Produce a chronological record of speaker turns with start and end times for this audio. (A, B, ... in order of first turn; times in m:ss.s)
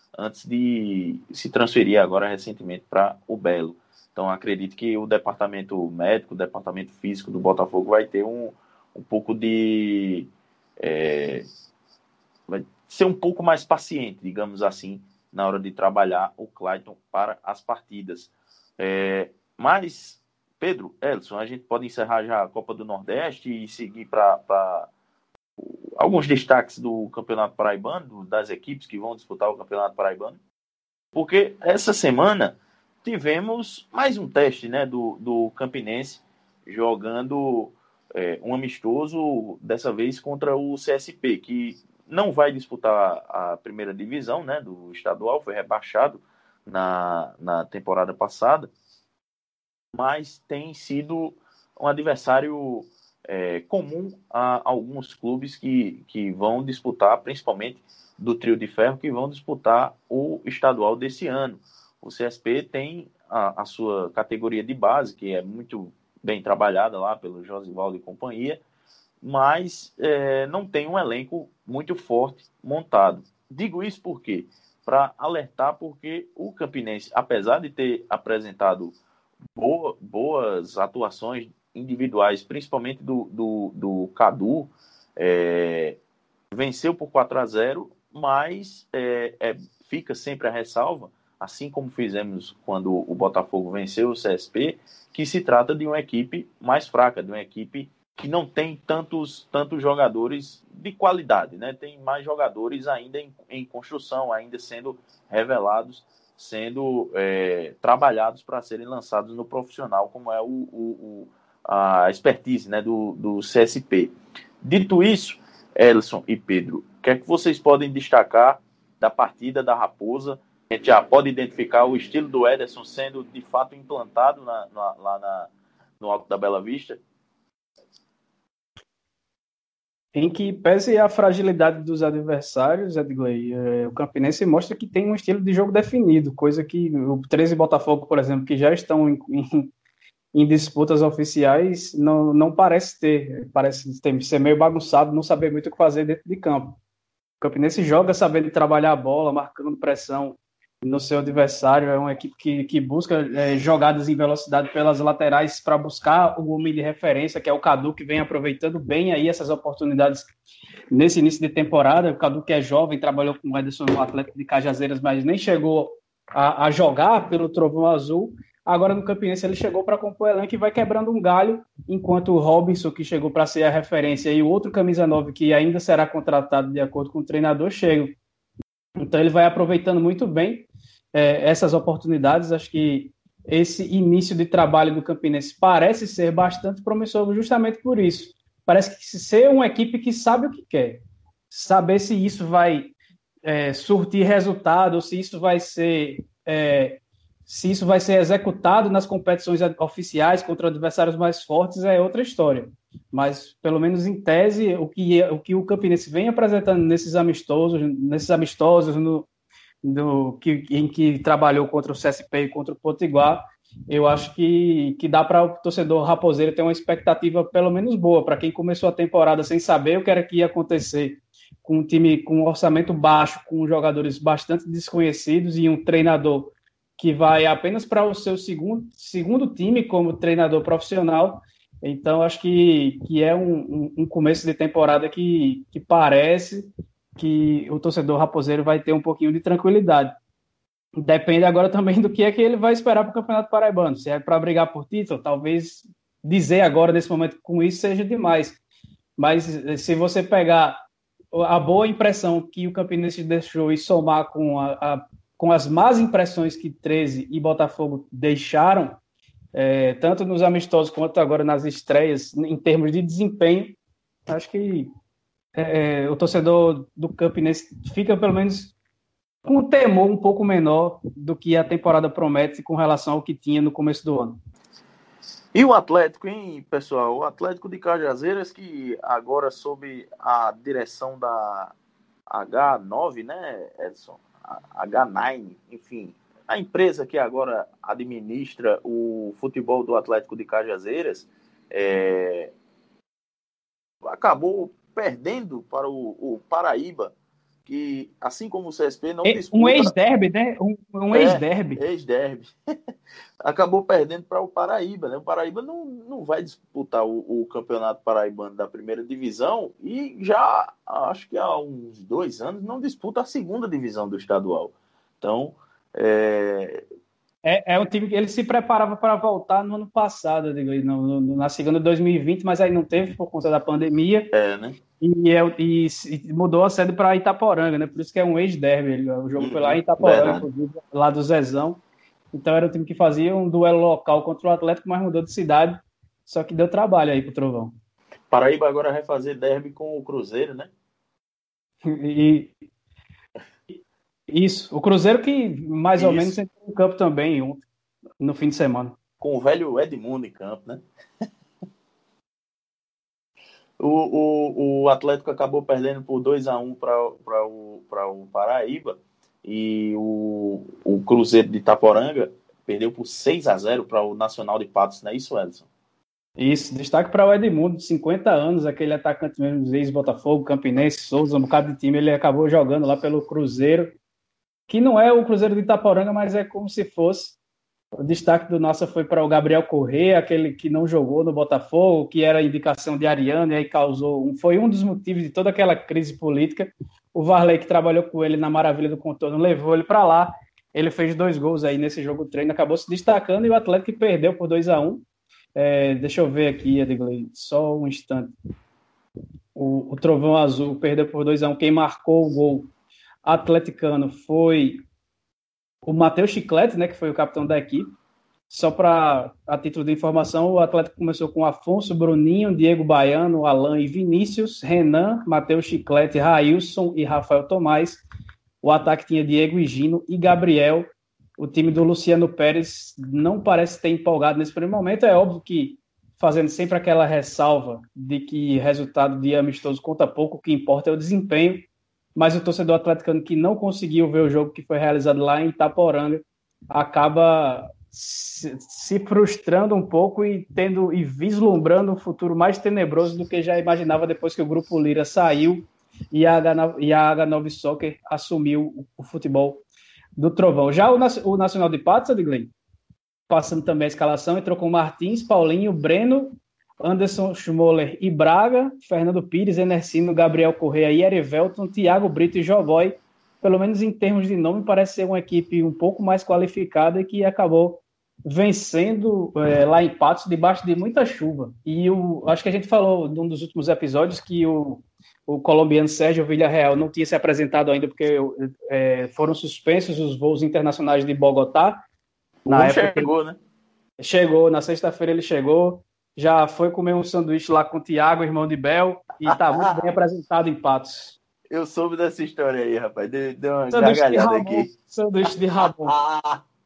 0:00.2-0:10.3 A
0:10.8-0:11.5 A
0:12.5-0:24.9 A
0:25.6-0:30.4 A
0:31.1-0:48.7 A
0:49.9-1:08.6 A
1:09.2-1:18.9 A
1:19.6-1:26.0 A
1:26.5-2:07.0 A
2:10.1-2:19.7 B
2:20.3-2:26.8 B
2:27.4-2:40.3 B
2:40.9-2:58.2 B
2:59.0-3:12.9 B
3:13.4-3:29.3 B
3:29.8-4:00.1 B
4:01.0-4:08.6 B
4:09.2-4:10.8 B
4:11.3-4:19.0 B
4:19.5-4:23.8 B
4:24.3-4:24.9 B
4:25.6-4:28.7 B
4:29.4-4:34.4 B
4:35.5-4:41.7 A
4:42.3-4:52.5 A
4:54.0-4:57.1 A
4:57.6-4:59.9 A
4:59.2-5:01.8 B
5:01.1-5:02.5 A
5:03.4-5:16.8 A
5:17.4-5:24.3 B
5:24.3-5:24.8 A
5:25.0-5:31.8 B
5:29.4-5:30.4 A
5:32.3-5:37.7 B
5:38.3-5:40.7 A
5:41.8-5:42.5 B
5:44.3-5:47.7 B
5:46.0-5:46.4 A
5:48.2-5:48.9 B
5:49.2-5:50.8 A
5:53.8-6:05.6 A
6:06.4-6:14.0 B
6:14.7-6:17.4 B
6:18.0-6:35.0 B
6:35.6-6:38.3 B
6:39.5-6:42.7 B
6:43.2-6:44.8 B
6:45.8-6:47.9 B
6:48.5-6:58.0 B
6:58.6-7:00.9 B
7:01.4-7:29.6 B
7:30.2-7:32.5 B
7:33.3-8:01.8 B
8:02.4-8:03.4 A
8:02.5-8:03.1 B
8:04.0-8:11.2 B
8:11.5-8:14.7 A
8:13.7-8:15.9 B
8:15.8-8:16.4 A